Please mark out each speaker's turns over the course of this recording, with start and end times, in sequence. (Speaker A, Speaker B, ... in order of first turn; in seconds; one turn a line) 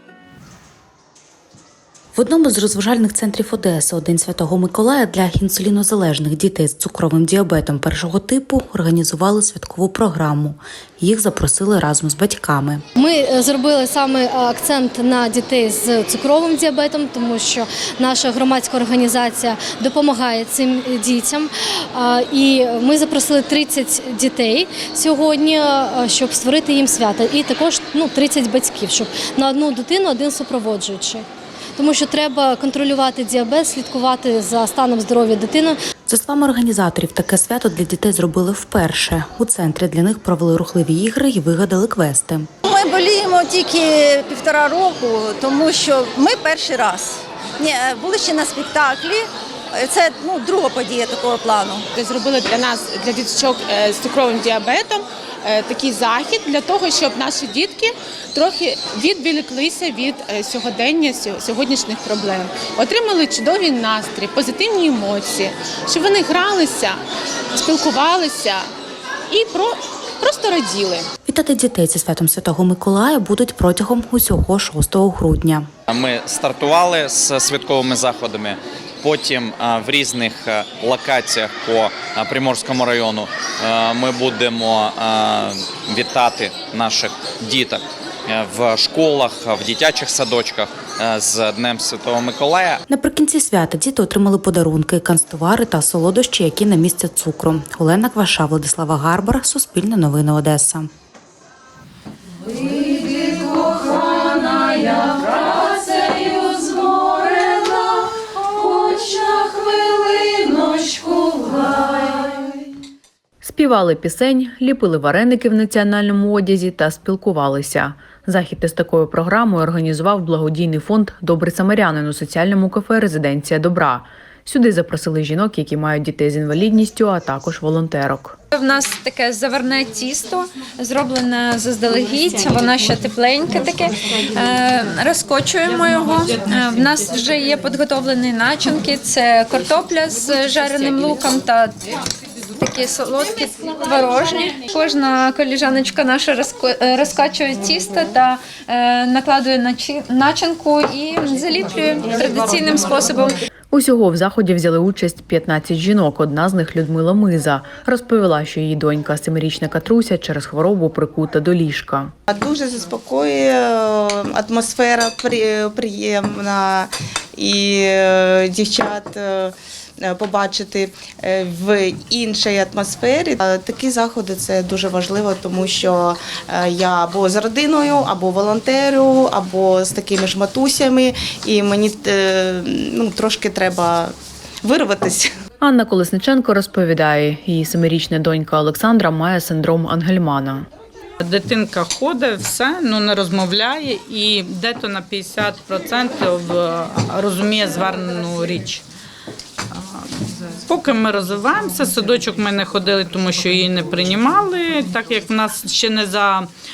Speaker A: 2.1-12.8
Speaker B: 12.9-31.2
Speaker B: 31.8-35.8
Speaker A: 36.1-42.5
Speaker C: 42.7-51.9
Speaker D: 51.9-67.0
Speaker D: 67.5-68.7
Speaker D: 69.3-71.1
Speaker A: 71.2-75.7
Speaker E: 75.9-92.8
Speaker A: 92.9-100.9
Speaker F: 113.4-128.3
Speaker G: 128.5-141.7
Speaker G: 142.6-153.4
Speaker F: 153.7-162.1
Speaker H: 162.3-185.3
Speaker F: 185.6-190.7
Speaker I: 191.2-198.8
Speaker I: 199.7-200.1
Speaker I: 200.7-206.5